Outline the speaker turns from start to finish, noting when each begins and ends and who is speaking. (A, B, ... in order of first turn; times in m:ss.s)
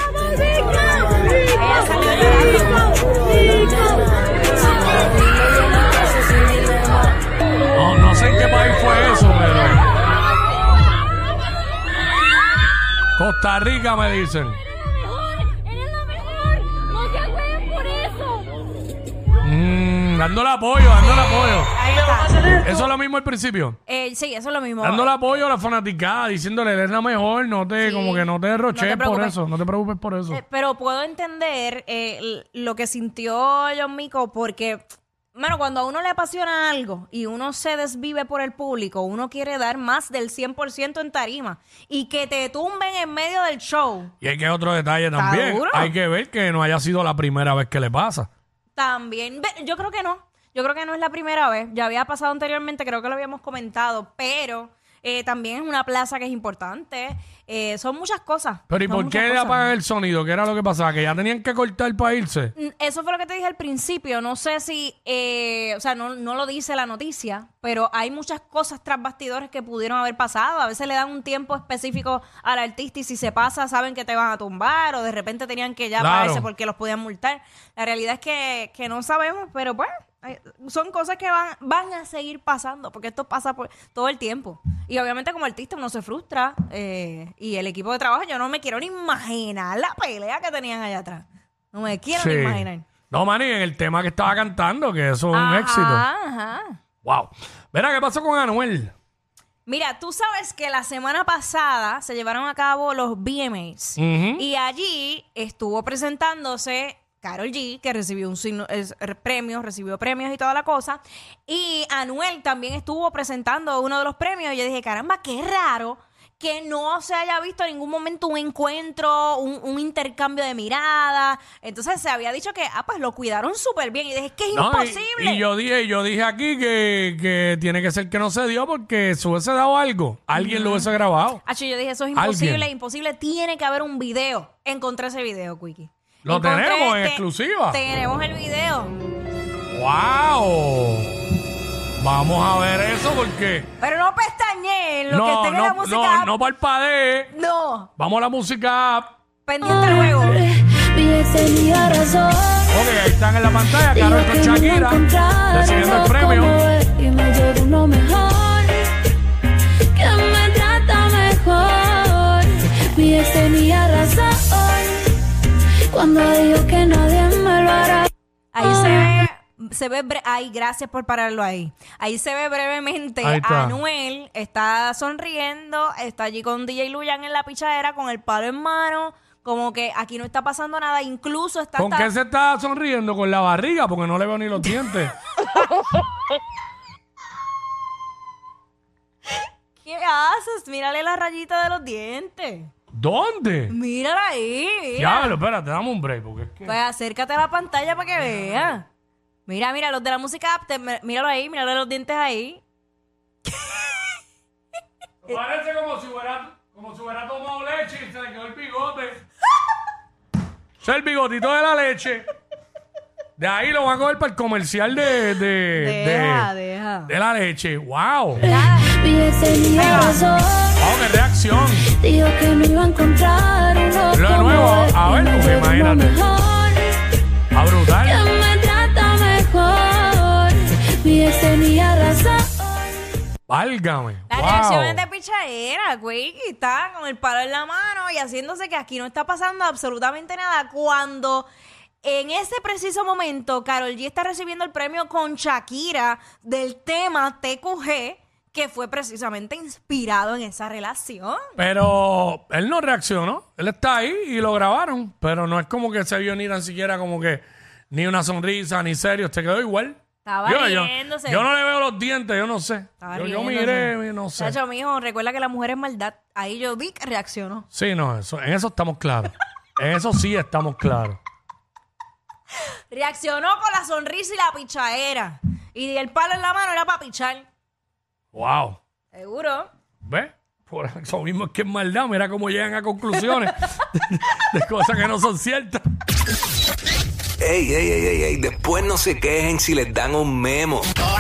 0:01.5-0:03.0 A
0:04.6-0:05.0 A
0:07.7-0:09.8 B
0:13.2-0:14.6 B
0:19.4-0:21.7 B
0:20.9-0:22.7 A
0:22.6-0:23.8 B
0:23.9-0:25.1 A
0:24.8-0:30.4 B
0:27.8-0:29.4 A
0:30.3-0:44.1 A
0:44.2-0:48.3 B
0:45.1-0:45.9 A
0:48.7-0:59.7 A
0:58.7-1:02.5 B
1:02.6-1:32.8 A
1:16.0-1:16.5 B
1:32.1-1:36.0 B
1:35.3-1:36.8 A
1:37.0-1:38.9 B
1:39.6-2:05.4 A
1:44.0-1:44.4 B
2:04.5-2:11.4 B
2:10.3-2:10.9 A
2:11.4-2:18.9 A
2:12.1-2:12.7 B
2:16.2-2:17.8 B
2:19.7-2:21.1 B
2:22.0-2:23.7 B
2:23.8-2:26.3 A
2:25.1-2:27.3 B
2:27.3-2:27.9 A
2:28.0-2:29.1 B
2:29.4-2:30.4 A
2:29.6-2:32.7 C
2:32.7-2:36.6 B
2:33.9-2:38.8 C
2:39.9-2:45.0 C
2:45.9-2:48.1 C
2:48.5-3:02.1 A
2:48.6-2:49.1 C
2:53.2-2:53.8 B
3:01.8-3:05.1 B
3:09.8-3:12.7 A
3:12.9-3:13.8 B
3:13.7-3:15.3 A
3:15.0-3:16.8 B
3:16.6-3:18.8 A
3:19.4-3:22.6 A
3:25.2-3:29.2 B
3:30.8-3:32.3 B
3:33.4-3:36.5 B
3:35.7-3:37.1 A
3:37.1-3:38.4 B
3:38.4-3:40.8 C
3:38.5-3:38.9 A
3:39.8-3:40.2 A
3:40.8-3:41.9 B
3:41.9-3:46.9 C
3:44.1-3:46.2 B
3:47.5-3:48.3 B
3:48.0-3:52.8 C
3:53.5-3:55.0 B
3:54.3-4:01.4 A
4:02.0-4:11.4 A
4:11.6-4:24.6 B
4:20.2-4:21.4 A
4:23.0-4:27.6 A
4:27.7-4:31.2 B
4:32.9-4:37.4 A
4:38.3-4:38.8 B
4:39.1-4:39.7 A
4:40.0-4:45.8 B
4:47.4-4:50.9 D